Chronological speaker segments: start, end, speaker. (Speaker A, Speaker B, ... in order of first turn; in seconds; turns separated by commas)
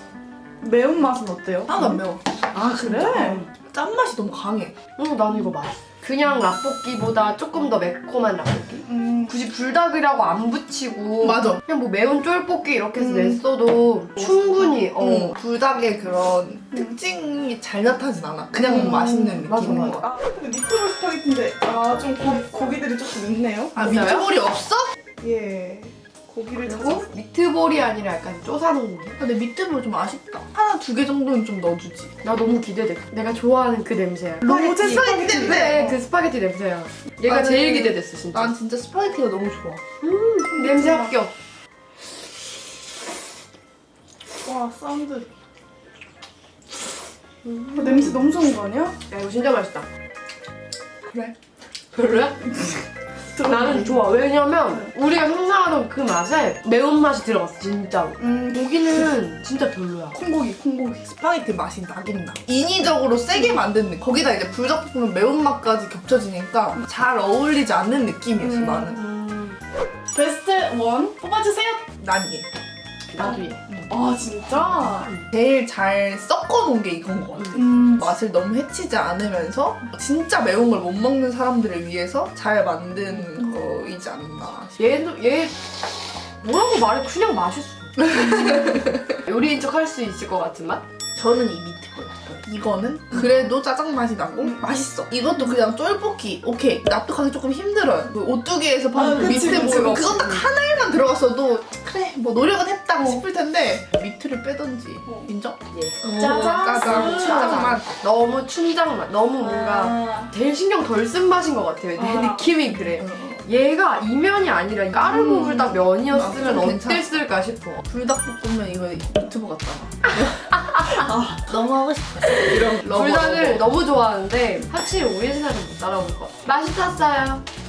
Speaker A: 0.6-2.0, Speaker B: 1.7-4.8, Speaker A: 2.5-3.5, Speaker C: 5.0-15.3, Speaker A: 8.8-9.3, Speaker B: 11.2-11.6, Speaker B: 13.0-13.4, Speaker B: 15.0-20.0, Speaker C: 18.6-20.0, Speaker A: 18.9-23.8, Speaker B: 23.7-24.9, Speaker C: 23.8-24.3, Speaker A: 25.2-27.1, Speaker C: 26.6-29.2, Speaker B: 29.2-32.1, Speaker C: 32.2-38.5, Speaker A: 34.4-36.0, Speaker B: 34.4-36.0, Speaker B: 37.2-39.8, Speaker C: 40.0-41.3, Speaker A: 40.5-41.1, Speaker A: 44.5-45.3, Speaker C: 47.4-48.3, Speaker A: 47.8-48.9, Speaker C: 49.1-49.9, Speaker B: 51.0-51.3, Speaker C: 51.9-52.6, Speaker A: 52.5-52.8, Speaker A: 53.3-54.1, Speaker C: 53.4-60.2, Speaker A: 58.2-59.1, Speaker A: 60.1-61.2, Speaker B: 61.1-69.0, Speaker A: 68.4-68.7, Speaker C: 68.7-69.6, Speaker A: 70.1-71.8, Speaker B: 72.0-72.5, Speaker C: 73.1-73.6, Speaker A: 73.2-75.1, Speaker C: 74.5-75.3, Speaker B: 75.3-84.8, Speaker A: 77.5-78.1, Speaker C: 84.8-85.5, Speaker C: 86.4-90.8, Speaker B: 88.6-89.0, Speaker B: 91.2-107.8, Speaker A: 98.9-100.2, Speaker C: 99.0-100.5, Speaker C: 105.7-117.8, Speaker A: 106.3-107.4, Speaker A: 109.4-110.3, Speaker A: 112.0-112.5, Speaker B: 112.9-113.4, Speaker B: 115.3-117.2, Speaker B: 117.8-123.7, Speaker C: 120.2-121.0, Speaker A: 121.1-121.4, Speaker C: 122.3-127.4